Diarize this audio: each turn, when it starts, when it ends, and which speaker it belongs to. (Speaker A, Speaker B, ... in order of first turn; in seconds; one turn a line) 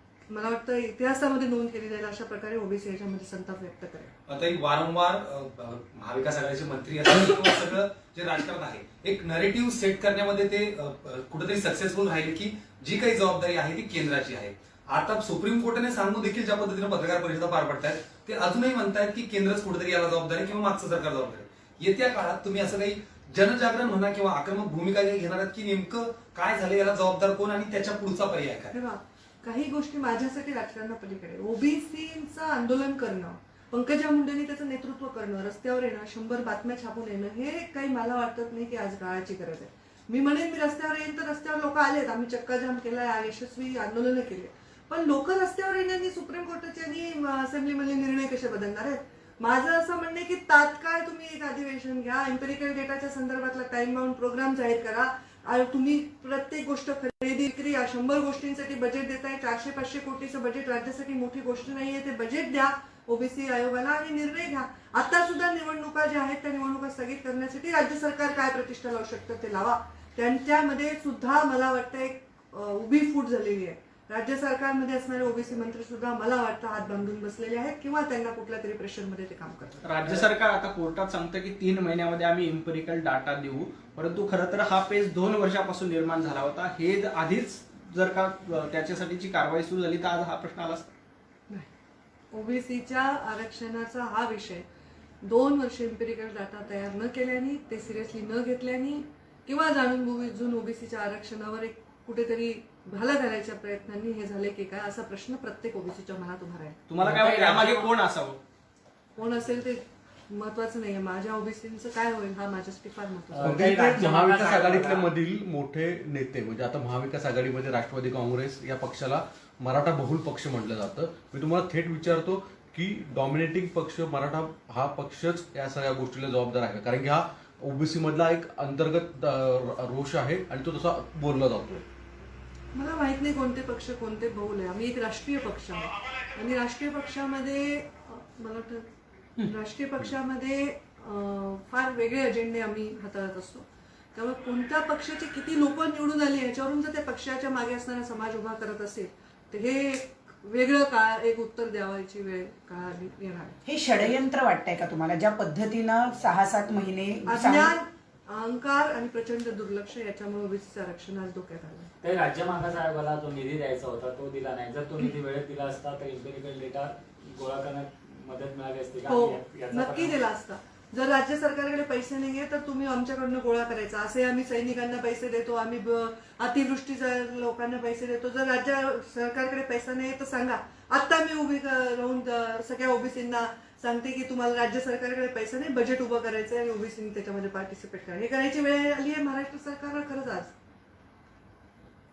Speaker A: 0.3-4.1
Speaker B: 4.3-28.8
Speaker A: 28.7-80.2
Speaker C: 79.8-90.9
Speaker A: 92.3-94.6
Speaker A: 95.2-106.8
Speaker C: 106.9-108.4
Speaker D: 107.0-107.9
Speaker A: 109.2-113.6
Speaker D: 113.3-115.1
Speaker E: 113.4-131.8
Speaker A: 132.7-138.9
Speaker A: 139.4-153.6
Speaker F: 153.7-157.8
Speaker A: 157.3-161.9
Speaker D: 162.0-170.2
Speaker A: 169.1-190.5